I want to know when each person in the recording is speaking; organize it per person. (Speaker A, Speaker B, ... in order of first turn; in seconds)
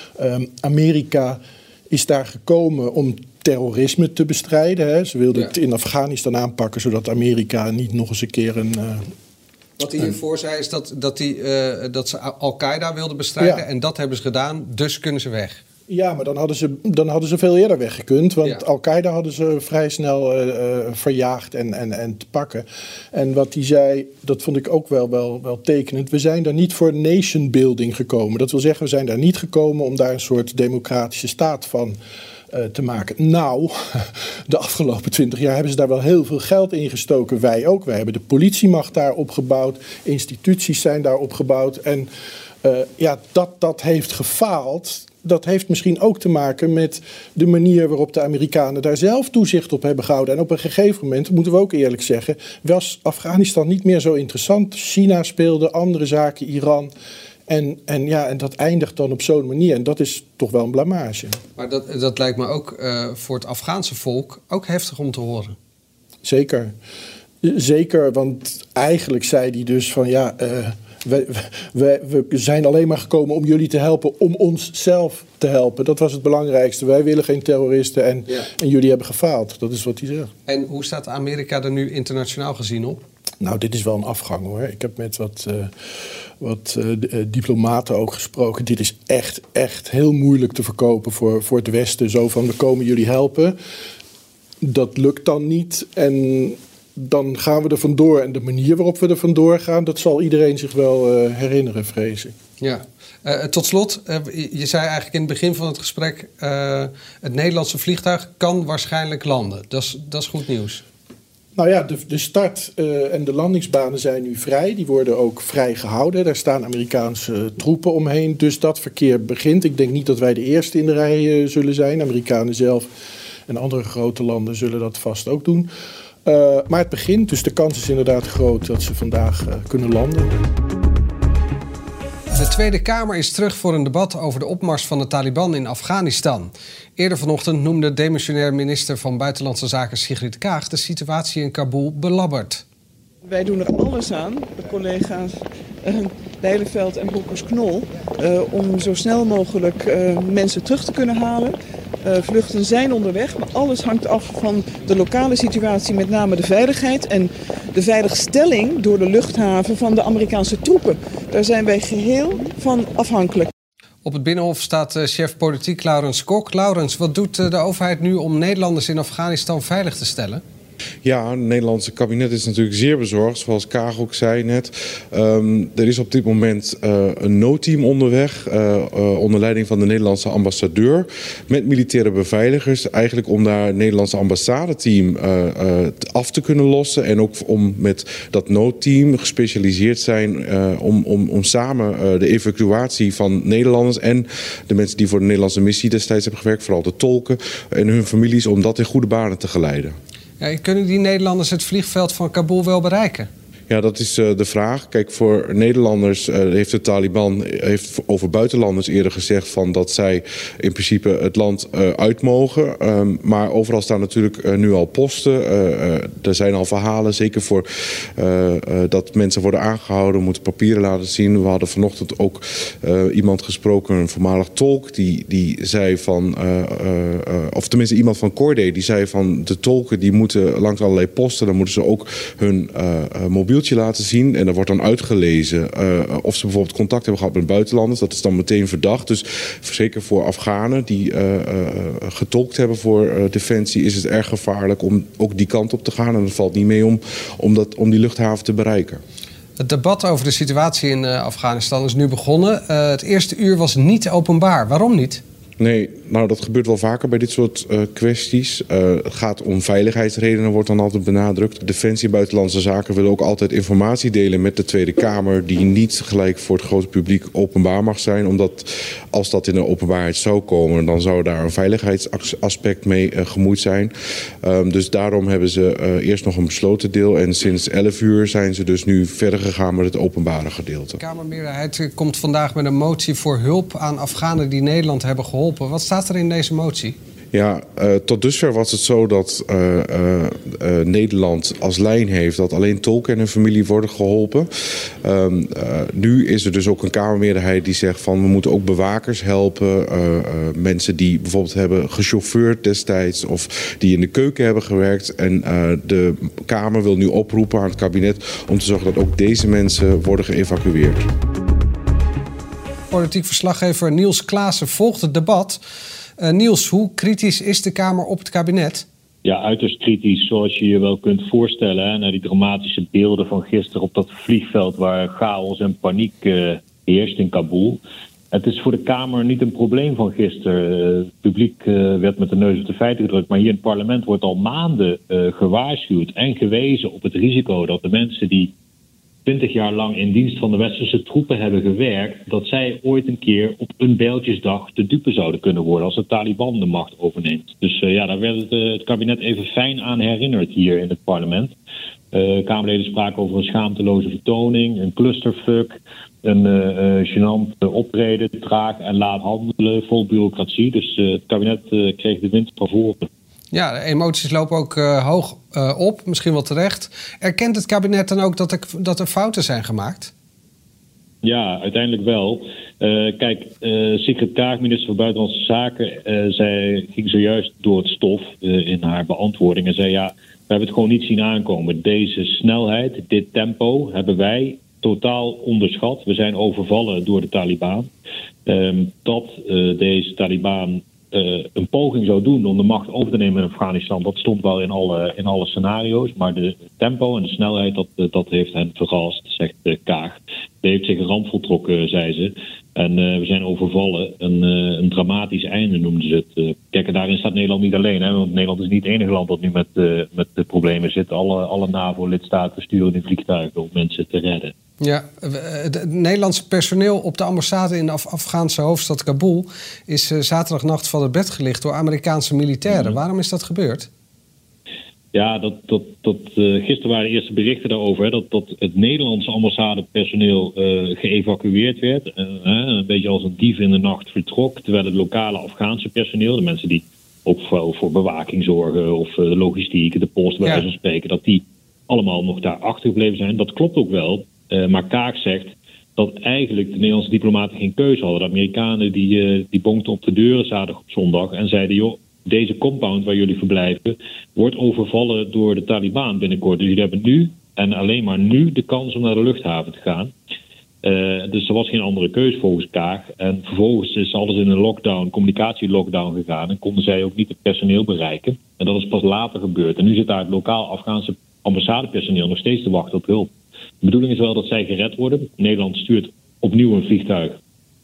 Speaker A: 0.2-1.4, 1.9-9.0, 15.9-32.0, 32.5-33.7, 34.5-42.1, 42.6-56.9, 57.5-61.4, 66.2-66.7, 67.5-80.3, 83.4-85.7, 86.4-93.5, 94.7-102.3, 111.5-122.8, 123.5-125.7, 126.3-130.3
Speaker B: 9.8-15.6, 61.6-65.6, 80.5-83.0, 102.6-110.8, 132.3-142.7, 164.0-170.4, 200.4-203.3, 249.6-255.2, 281.0-287.0, 312.9-315.6, 316.2-318.9, 363.5-370.1, 414.8-423.9
Speaker C: 143.2-163.5
Speaker D: 171.0-200.0, 203.7-249.0, 255.6-281.0, 287.3-294.5, 295.0-311.1
Speaker E: 319.2-327.8, 328.3-338.5, 339.3-351.5, 352.1-355.7, 356.2-363.1, 371.2-387.9, 388.5-414.5, 422.7-423.0, 425.1-460.1, 460.8-473.3, 473.8-477.4